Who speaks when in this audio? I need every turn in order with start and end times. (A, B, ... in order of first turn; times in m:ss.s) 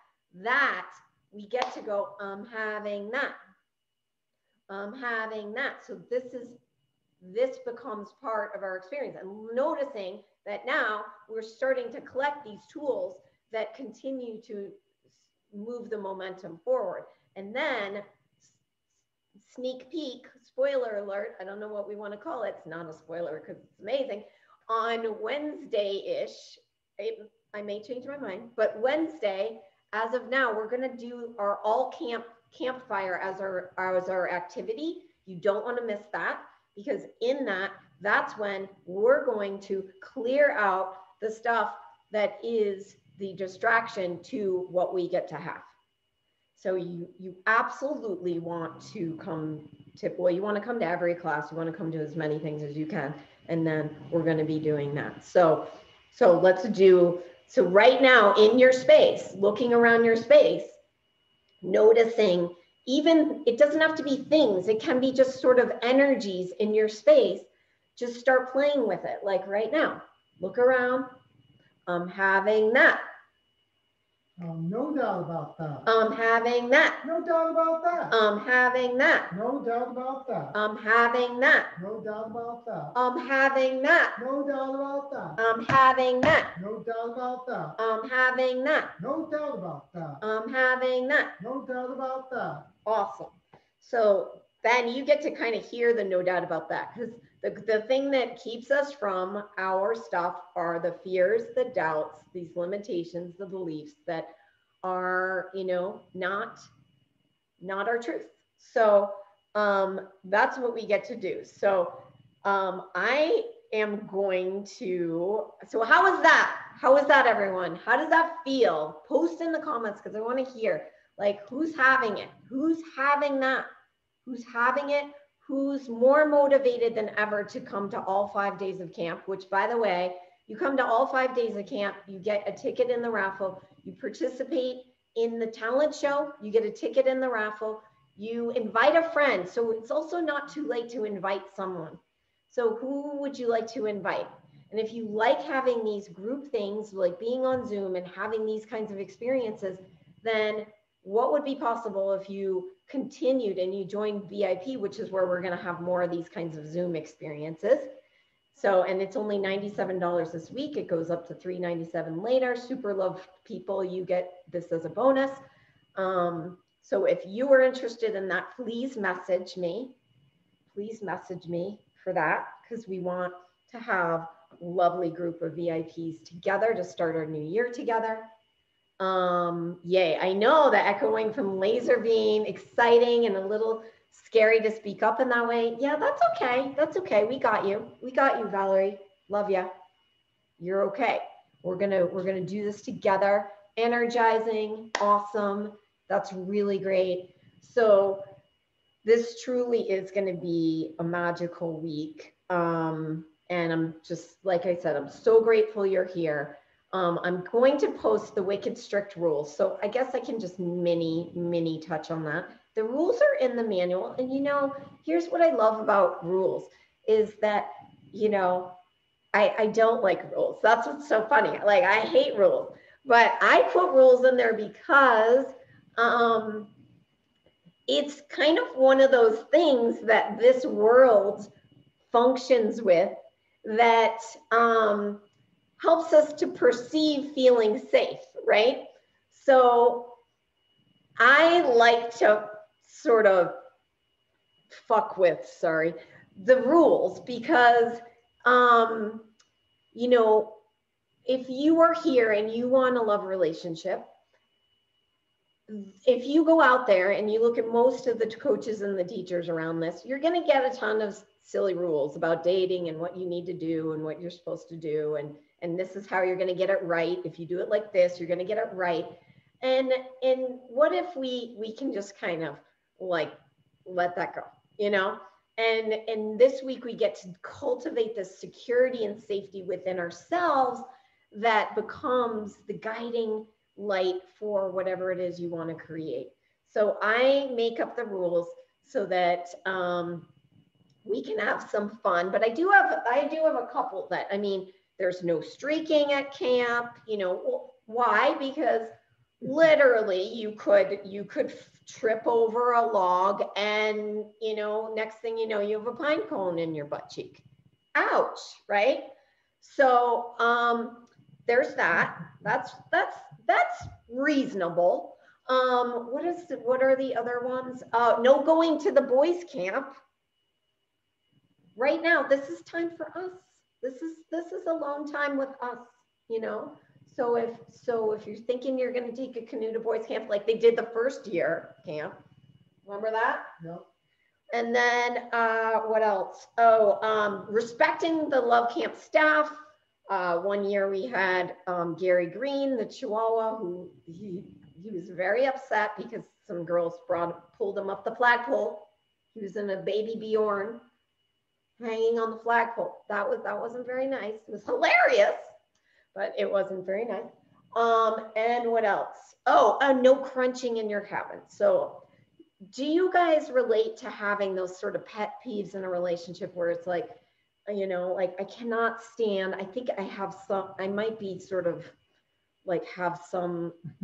0:00.3-0:03.3 A
0:04.7-0:06.6 A
0:07.2-0:14.8 A
0:15.5-0:18.6 A
0:19.4-0:45.7 A
0:46.5-1:00.8 A
1:01.6-1:11.1 A
1:11.9-1:13.0 A
1:14.4-1:15.9 B
1:15.8-1:17.0 A
1:17.0-1:18.2 B
1:18.1-1:19.3 A
1:19.3-1:20.6 B
1:20.5-1:21.7 A
1:21.8-1:23.0 B
1:22.9-1:24.2 A
1:24.2-1:25.4 B
1:25.4-1:26.5 A
1:26.5-1:27.8 B
1:27.8-1:28.9 A
1:29.0-1:30.2 B
1:30.2-1:31.4 A
1:31.4-1:32.7 B
1:32.8-1:44.3 A
1:44.8-1:46.7 A
1:47.6-2:03.7 A
2:04.2-2:37.9 A
2:38.5-2:45.4 A
2:46.0-2:49.9 A
2:50.7-2:58.3 A
2:59.0-3:09.7 A
3:10.6-3:18.2 A
3:19.0-3:38.8 A
3:39.3-3:46.7 A
3:47.9-3:51.5 A
3:52.1-3:55.2 A
3:55.8-4:00.2 A
4:01.2-4:03.6 A
4:04.7-4:09.3 A
4:09.9-4:10.6 A
4:11.2-4:14.1 A
4:15.7-4:50.3 A
4:51.0-5:07.4 A
5:07.9-5:09.1 A
5:09.6-5:19.9 A
5:21.8-5:32.1 A
5:32.8-5:33.5 A
5:33.6-5:33.9 B
5:34.5-5:50.8 A
5:51.8-5:55.5 A
5:56.1-6:02.0 A
6:02.7-6:11.9 A
6:12.6-6:13.8 A